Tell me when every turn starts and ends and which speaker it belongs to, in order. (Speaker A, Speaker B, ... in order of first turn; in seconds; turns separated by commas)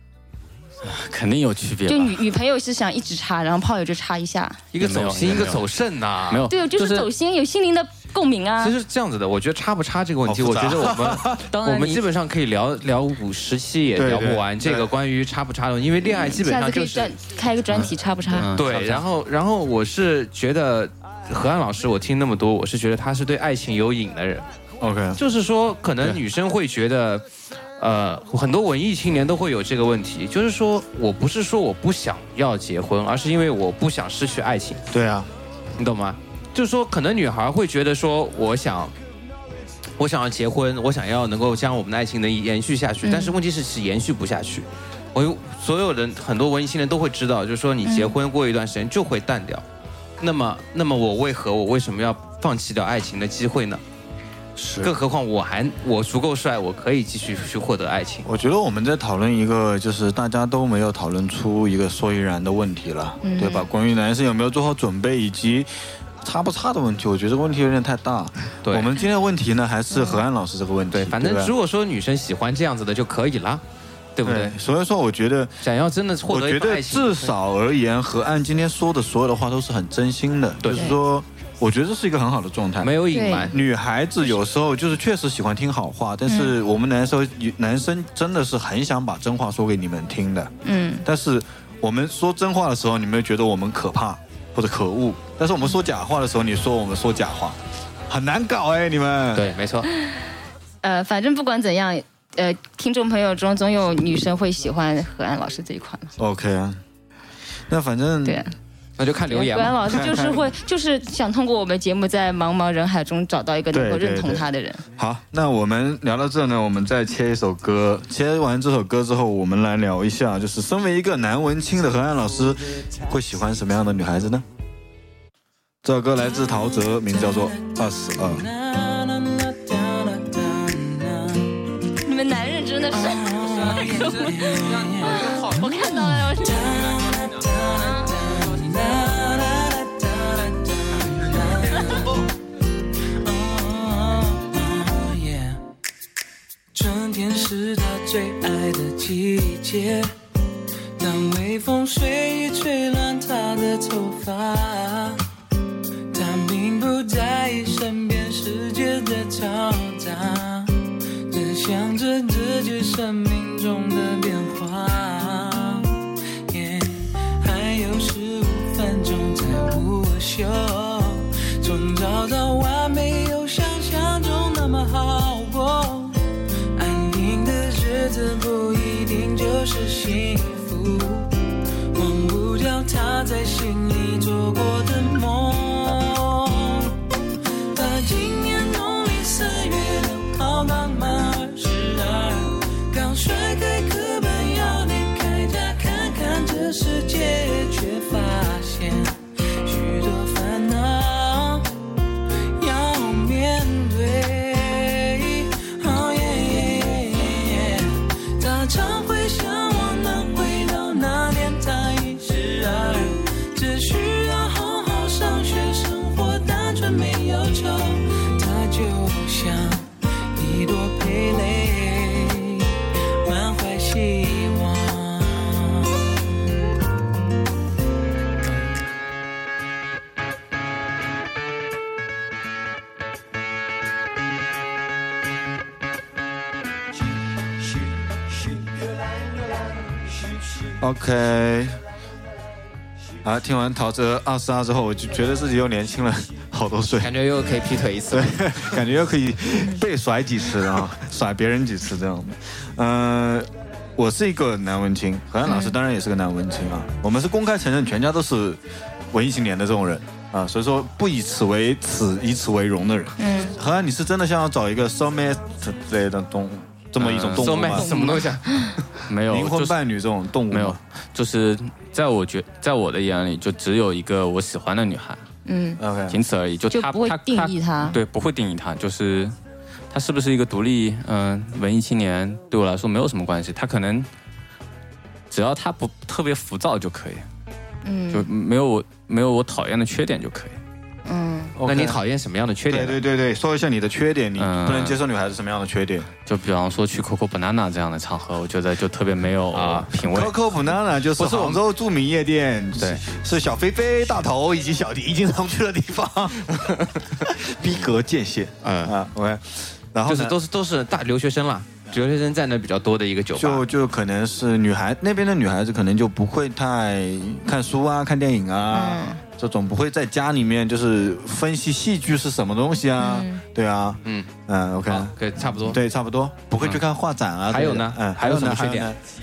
Speaker A: 0.8-2.2, Speaker B: 1.9-4.6, Speaker C: 4.7-6.5, Speaker A: 4.8-5.7, Speaker A: 6.3-7.1, Speaker B: 6.5-8.7, Speaker C: 8.6-17.1, Speaker D: 10.2-11.4, Speaker A: 11.5-12.0, Speaker D: 13.9-14.9, Speaker B: 16.0-18.5, Speaker A: 18.3-19.0, Speaker C: 18.5-24.4, Speaker D: 24.8-25.2, Speaker C: 25.2-27.2, Speaker C: 27.8-34.8, Speaker D: 34.9-35.3, Speaker C: 35.8-38.9, Speaker C: 40.0-49.6, Speaker B: 43.0-43.4, Speaker B: 47.8-48.1, Speaker C: 50.2-53.8, Speaker D: 54.6-54.9, Speaker C: 54.8-58.2, Speaker D: 58.2-65.7, Speaker B: 63.2-63.7, Speaker D: 66.2-71.5, Speaker C: 68.6-68.9, Speaker B: 69.9-70.2, Speaker C: 70.9-73.6, Speaker C: 74.2-74.5, Speaker D: 74.2-75.6, Speaker C: 75.6-77.3, Speaker D: 76.3-90.5, Speaker C: 82.8-83.6, Speaker B: 83.1-83.5, Speaker B: 86.3-86.5, Speaker B: 90.6-91.0, Speaker D: 91.0-99.5, Speaker C: 99.3-99.9, Speaker B: 100.8-106.1, Speaker D: 106.2-106.8, Speaker D: 107.7-108.4, Speaker B: 108.2-108.5, Speaker C: 109.0-110.0, Speaker B: 109.3-114.8, Speaker D: 109.8-110.5, Speaker D: 113.7-124.4, Speaker D: 125.8-128.4, Speaker E: 126.5-131.6, Speaker B: 132.0-134.4, Speaker E: 132.9-142.3, Speaker B: 135.1-136.7, Speaker E: 143.2-145.6, Speaker E: 146.7-150.1, Speaker E: 151.0-155.2, Speaker E: 156.1-165.9, Speaker E: 166.5-176.2, Speaker E: 176.7-181.3, Speaker E: 181.9-186.9, Speaker E: 187.7-201.7, Speaker E: 202.6-222.7, Speaker E: 223.2-226.1, Speaker D: 240.8-241.8, Speaker D: 243.2-247.1, Speaker C: 247.0-248.8, Speaker D: 248.1-258.6, Speaker B: 255.4-255.8, Speaker D: 259.1-267.9, Speaker B: 263.2-263.5, Speaker A: 267.0-267.6, Speaker C: 267.4-268.9, Speaker B: 267.7-268.7, Speaker A: 269.1-269.8, Speaker D: 269.3-270.8, Speaker A: 270.5-275.2, Speaker B: 275.4-275.8, Speaker D: 275.8-276.2, Speaker A: 276.1-279.3, Speaker B: 276.7-278.0, Speaker A: 279.9-284.1, Speaker A: 285.3-287.2, Speaker B: 287.8-288.3, Speaker A: 288.1-290.6, Speaker B: 291.1-291.5, Speaker D: 291.6-292.0, Speaker C: 291.6-293.0, Speaker D: 292.7-296.1, Speaker A: 294.4-295.0, Speaker A: 296.2-300.4, Speaker C: 299.5-299.9, Speaker D: 300.0-310.4, Speaker C: 301.2-301.6, Speaker C: 308.6-308.9, Speaker C: 310.1-313.6, Speaker D: 313.3-329.0, Speaker B: 318.7-319.2, Speaker B: 323.0-323.4, Speaker C: 324.9-325.8, Speaker C: 327.5-328.9